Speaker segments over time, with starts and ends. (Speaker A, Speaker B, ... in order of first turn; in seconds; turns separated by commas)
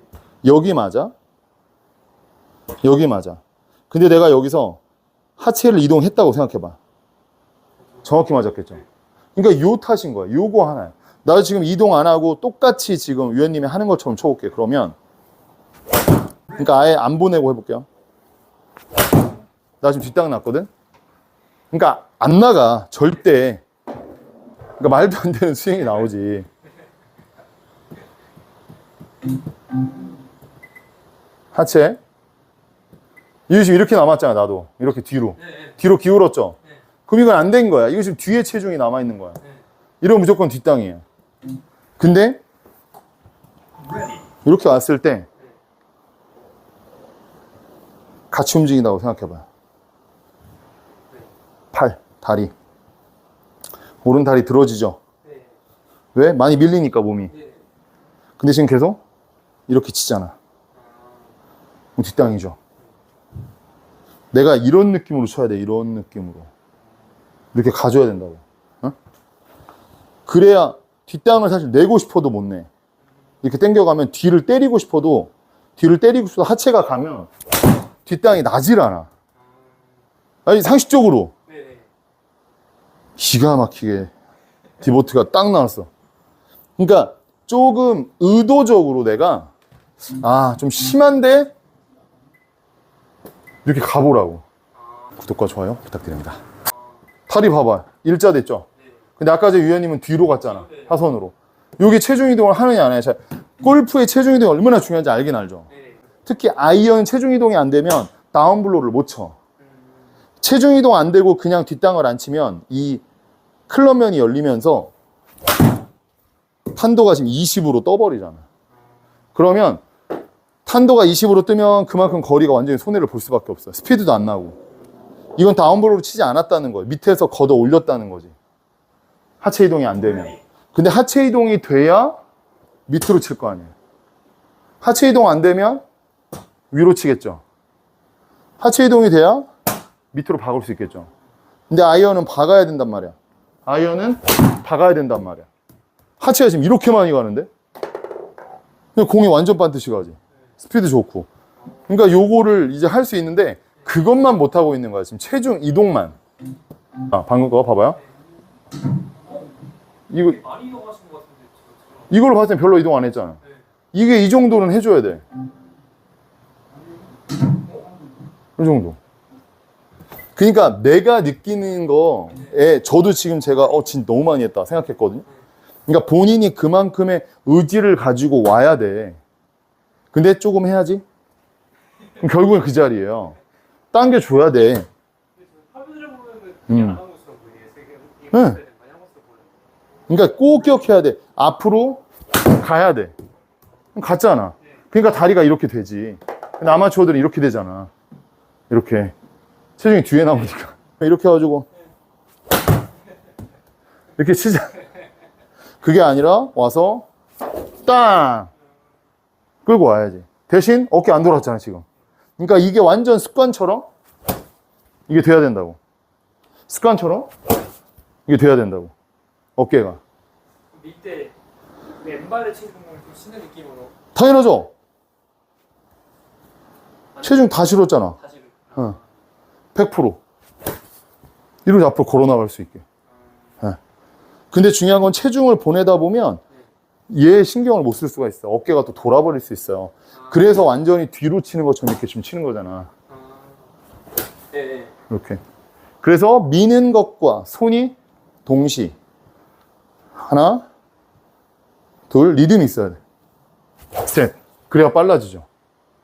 Speaker A: 0.4-1.1, Speaker A: 2.8-3.4, Speaker A: 3.9-4.8, Speaker A: 5.4-6.8, Speaker A: 8.0-8.8, Speaker A: 9.4-15.0, Speaker A: 16.5-17.9, Speaker A: 19.8-20.7, Speaker A: 21.7-23.6, Speaker A: 24.8-26.5, Speaker A: 31.5-32.0, Speaker A: 33.5-39.4, Speaker A: 40.0-41.0, Speaker A: 42.0-42.4, Speaker A: 44.4-45.3, Speaker A: 48.3-49.4, Speaker A: 51.7-52.5, Speaker A: 54.0-55.0, Speaker A: 56.1-57.3, Speaker A: 58.4-59.0, Speaker A: 59.7-60.4, Speaker B: 60.8-61.2, Speaker A: 62.0-62.6, Speaker A: 64.3-66.5, Speaker A: 67.5-69.0, Speaker A: 70.3-72.7, Speaker A: 73.4-77.3, Speaker A: 78.0-79.1, Speaker A: 80.5-81.3, Speaker B: 81.5-81.8, Speaker A: 83.2-84.1, Speaker A: 84.8-85.9, Speaker A: 86.8-89.5, Speaker A: 90.1-91.5, Speaker A: 93.7-94.4, Speaker A: 95.2-96.4, Speaker A: 97.3-98.7, Speaker A: 99.2-105.7, Speaker B: 100.6-100.9, Speaker A: 106.2-109.3, Speaker A: 110.4-113.0, Speaker A: 113.7-114.9, Speaker A: 116.7-118.4, Speaker A: 119.3-119.8, Speaker A: 120.7-124.6, Speaker A: 125.4-128.3, Speaker A: 129.4-132.2, Speaker A: 132.9-133.7, Speaker A: 134.8-135.8, Speaker A: 136.7-137.4, Speaker A: 138.6-139.5, Speaker A: 140.1-141.1, Speaker A: 141.7-143.2, Speaker A: 143.7-145.5, Speaker A: 146.2-147.5, Speaker A: 149.0-151.3, Speaker A: 151.9-156.2, Speaker A: 157.0-158.0, Speaker A: 160.1-160.4, Speaker B: 160.4-161.8, Speaker A: 162.1-163.4, Speaker A: 163.9-165.2, Speaker A: 168.6-169.0, Speaker A: 170.4-175.3, Speaker A: 175.9-179.2, Speaker A: 180.1-181.0, Speaker A: 182.2-183.4, Speaker A: 183.9-184.9, Speaker B: 185.5-189.5, Speaker A: 186.7-187.0, Speaker A: 188.3-188.6, Speaker A: 190.1-193.1, Speaker A: 193.9-197.9, Speaker A: 198.7-199.1, Speaker A: 199.8-201.7, Speaker A: 204.2-204.8, Speaker A: 205.8-207.1, Speaker A: 207.8-208.5, Speaker A: 209.7-211.8, Speaker A: 212.4-213.9, Speaker A: 215.1-215.8, Speaker A: 216.7-217.3, Speaker A: 218.3-218.9, Speaker A: 219.6-220.0, Speaker B: 220.7-221.3, Speaker B: 222.0-223.9, Speaker A: 224.2-224.7, Speaker A: 227.2-228.2, Speaker B: 228.2-229.0, Speaker A: 229.8-230.2, Speaker A: 231.7-232.8, Speaker A: 234.5-236.4, Speaker A: 237.1-242.9, Speaker B: 243.1-243.6, Speaker B: 244.5-244.9, Speaker A: 245.1-245.4, Speaker A: 246.0-247.9, Speaker A: 248.5-248.9, Speaker A: 250.2-250.7, Speaker A: 252.1-253.0, Speaker A: 254.0-255.5